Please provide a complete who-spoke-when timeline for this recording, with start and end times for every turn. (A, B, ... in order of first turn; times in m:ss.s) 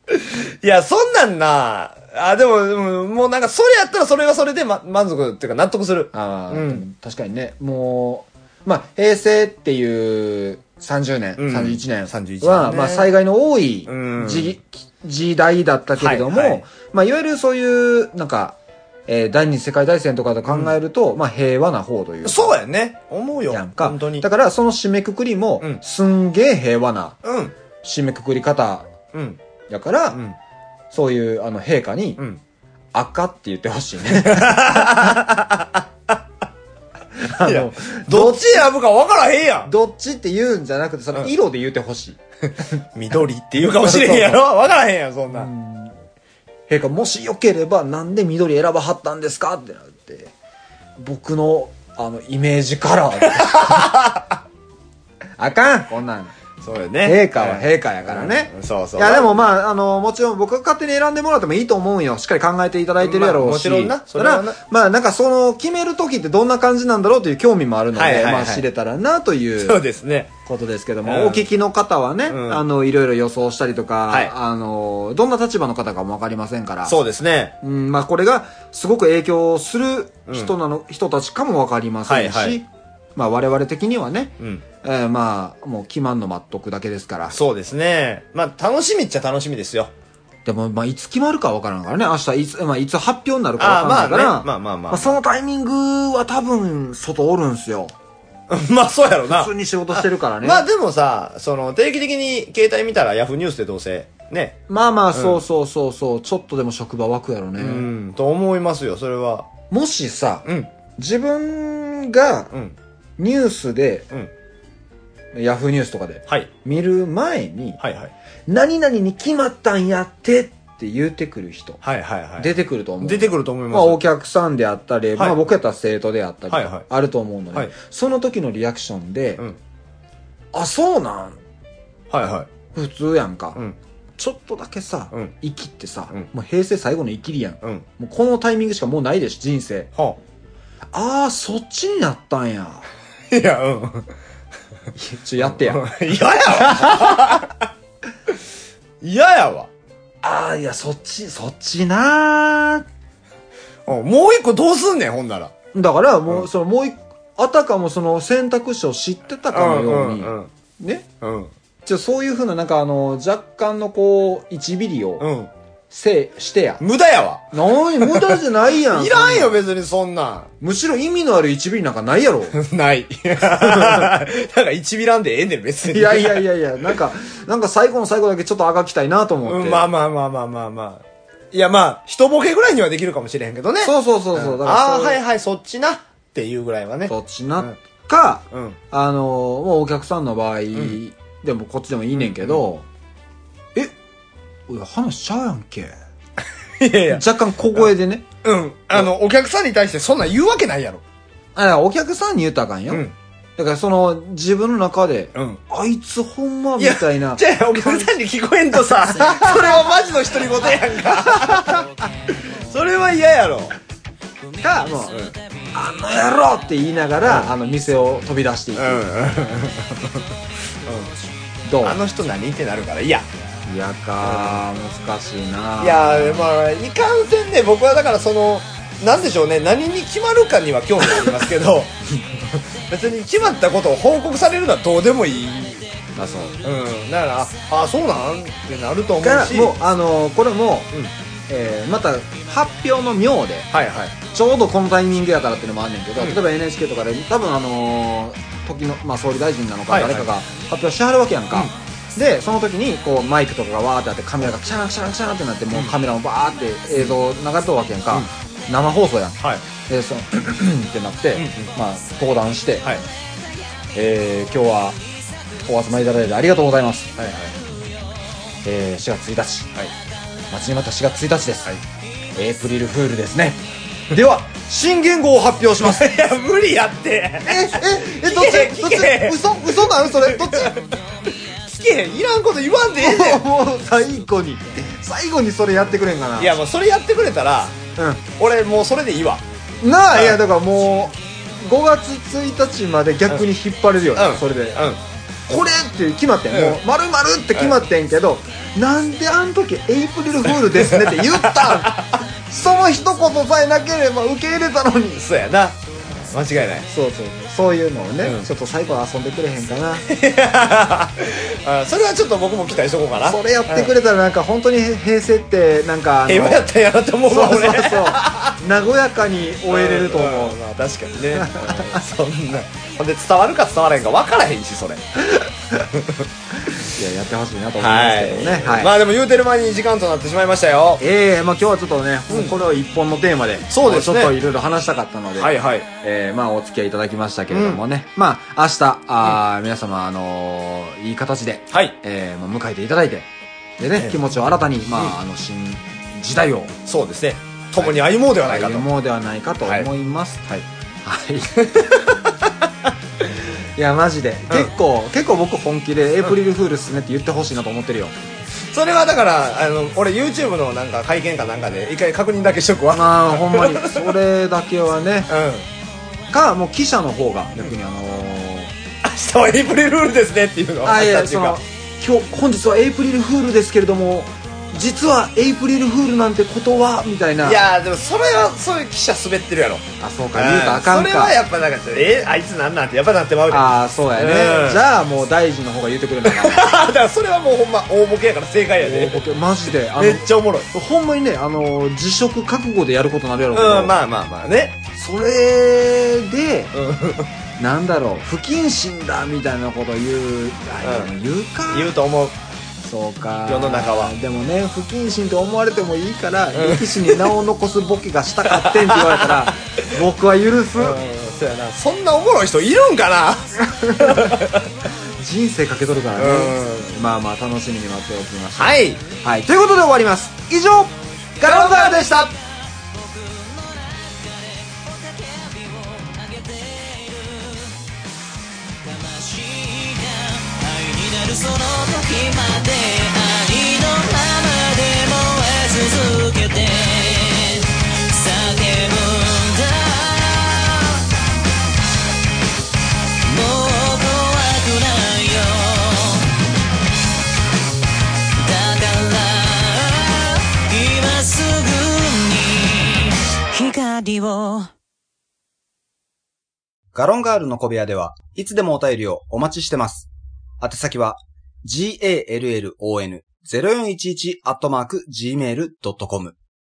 0:00.1-0:06.8 A
0:06.1-0:18.6 B
0:11.4-0:13.1 A
0:13.9-0:14.5 A
0:16.0-0:16.6 A
0:19.1-0:22.6 B
0:20.5-0:20.8 A
0:22.2-0:24.3 A
0:23.5-0:27.2 B
0:27.2-0:27.5 A
0:27.8-0:28.9 B
0:29.1-0:29.4 A
0:29.7-0:30.2 B
0:30.1-0:30.4 A
0:30.9-0:32.2 B
0:32.9-0:35.2 B
0:34.1-0:36.2 A
0:37.2-0:38.7 B
0:37.4-0:39.7 A
0:39.6-0:42.2 B
0:42.9-0:45.5 A
0:43.7-0:44.4 B
0:45.3-0:46.0 B
0:46.7-0:50.3 B
0:51.0-0:53.9 B
0:53.2-0:54.4 A
0:55.4-0:56.3 B
0:56.6-0:59.4 A
0:57.0-1:09.8 B
1:03.0-1:04.6 A
1:07.9-1:08.7 A
1:09.6-1:10.3 A
1:10.4-1:17.0 B
1:11.0-1:11.5 A
1:12.3-1:12.6 A
1:16.9-1:17.6 A
1:17.6-1:27.4 B
1:20.3-1:20.5 A
1:22.1-1:22.6 A
1:27.3-1:29.9 A
1:30.4-1:37.9 B
1:33.6-1:35.2 A
1:38.5-1:44.6 A
1:39.3-1:40.6 B
1:44.7-1:47.9 B
1:45.1-1:45.4 A
1:47.6-1:49.5 A
1:49.7-1:50.4 B
1:50.4-1:50.7 A
1:51.0-1:52.5 B
1:53.2-1:54.1 B
1:55.3-1:57.8 B
1:57.8-1:58.1 A
1:58.5-2:01.8 B
2:01.8-2:04.0 A
2:02.4-2:09.4 B
2:05.2-2:05.4 A
2:06.5-2:06.8 A
2:10.5-2:11.4 B
2:12.1-2:12.5 A
2:12.7-2:13.6 B
2:14.2-2:19.9 B
2:20.9-2:22.9 B
2:23.3-2:24.1 A
2:25.0-2:25.8 B
2:25.4-2:27.7 A
2:26.6-2:27.3 B
2:29.0-2:29.7 A
2:30.2-2:32.9 B
2:33.9-2:35.5 A
2:35.7-2:41.1 B
2:39.5-2:40.5 A
2:41.2-2:41.5 A
2:41.9-2:45.3 B
2:45.2-2:45.5 A
2:45.9-2:46.8 B
2:46.8-2:50.5 A
2:47.5-2:49.6 B
2:50.6-2:52.6 B
2:52.5-2:56.5 A
2:53.6-2:54.1 B
2:55.9-2:59.9 B
2:59.4-3:07.7 A
3:03.8-3:05.2 B
3:07.1-3:12.8 B
3:08.5-3:08.8 A
3:12.2-3:12.6 A
3:14.7-3:15.9 B
3:16.8-3:17.9 A
3:17.1-3:18.2 B
3:18.4-3:21.0 A
3:21.6-3:23.1 B
3:22.9-3:23.1 A
3:23.6-3:28.1 B
3:25.4-3:25.6 A
3:26.8-3:31.9 A
3:29.0-3:31.8 B
3:32.5-3:33.8 A
3:34.6-3:35.2 B
3:35.7-3:39.0 B
3:37.2-3:37.5 A
3:38.8-3:40.2 A
3:40.8-3:41.1 A
3:41.6-3:42.0 B
3:41.8-3:43.3 A
3:43.7-3:46.5 B
3:44.2-3:44.6 A
3:45.8-3:55.9 A
3:56.2-3:56.6 B
3:56.6-3:59.8 A
3:59.2-4:00.9 B
4:01.5-4:03.7 B
4:03.7-4:04.2 A
4:04.3-4:23.0 B
4:09.9-4:10.3 A
4:21.4-4:21.7 A
4:23.9-4:25.0 B
4:25.6-4:27.2 B
4:27.2-4:27.6 A
4:28.6-4:29.8 B
4:30.5-4:31.8 B
4:32.3-4:36.1 B
4:35.8-4:40.8 A
4:37.4-4:40.8 B
4:41.6-4:43.5 A
4:43.0-4:46.6 B
4:46.4-4:47.8 A
4:48.0-4:48.2 B
4:48.3-4:49.4 A
4:49.8-4:54.9 B
4:54.2-4:55.0 A
4:55.5-5:05.3 B
4:56.5-4:56.8 A
5:00.5-5:02.2 A
5:05.2-5:06.9 A
5:06.9-5:10.1 B
5:08.2-5:08.5 A
5:10.0-5:13.9 A
5:13.2-5:16.6 B
5:16.3-5:18.6 A
5:17.3-5:20.6 B
5:19.7-5:26.3 A
5:21.3-5:22.0 B
5:26.8-5:28.9 B
5:27.8-5:31.0 A
5:31.0-5:43.3 B
5:33.7-5:34.4 A
5:35.4-5:35.9 A
5:37.5-5:37.8 A
5:43.8-5:46.7 B
5:46.9-5:48.9 A
5:47.8-5:51.8 B
5:51.6-5:52.3 A
5:53.8-5:58.2 B
5:58.6-6:04.2 A
6:02.9-6:05.3 B
6:05.3-6:05.7 A
6:06.3-6:08.7 B
6:09.0-6:11.6 A
6:10.8-6:17.6 B
6:17.4-6:24.8 A
6:20.0-6:21.4 B
6:23.5-6:26.7 B
6:26.2-6:29.2 A
6:28.8-6:34.0 B
6:30.0-6:30.7 A
6:33.5-6:34.8 A
6:35.0-6:36.7 B
6:36.7-6:37.3 A
6:37.6-6:41.9 B
6:40.8-6:41.1 A
6:41.7-6:42.4 A
6:42.8-6:51.0 B
6:43.5-6:44.1 A
6:46.5-6:47.4 A
6:48.5-6:49.6 A
6:50.8-6:54.9 A
6:53.6-6:54.4 B
6:55.2-7:02.3 B
6:56.2-6:57.0 A
6:58.6-6:59.0 A
7:01.4-7:02.3 A
7:02.4-7:07.8 C
7:08.7-7:21.0 C
7:23.2-7:26.3 C
7:28.4-7:34.7 C
7:37.0-7:40.0 D
7:38.2-7:38.8 B
7:40.6-7:41.2 D
7:40.7-7:41.0 B
7:41.7-7:46.3 B
7:41.7-7:46.3 D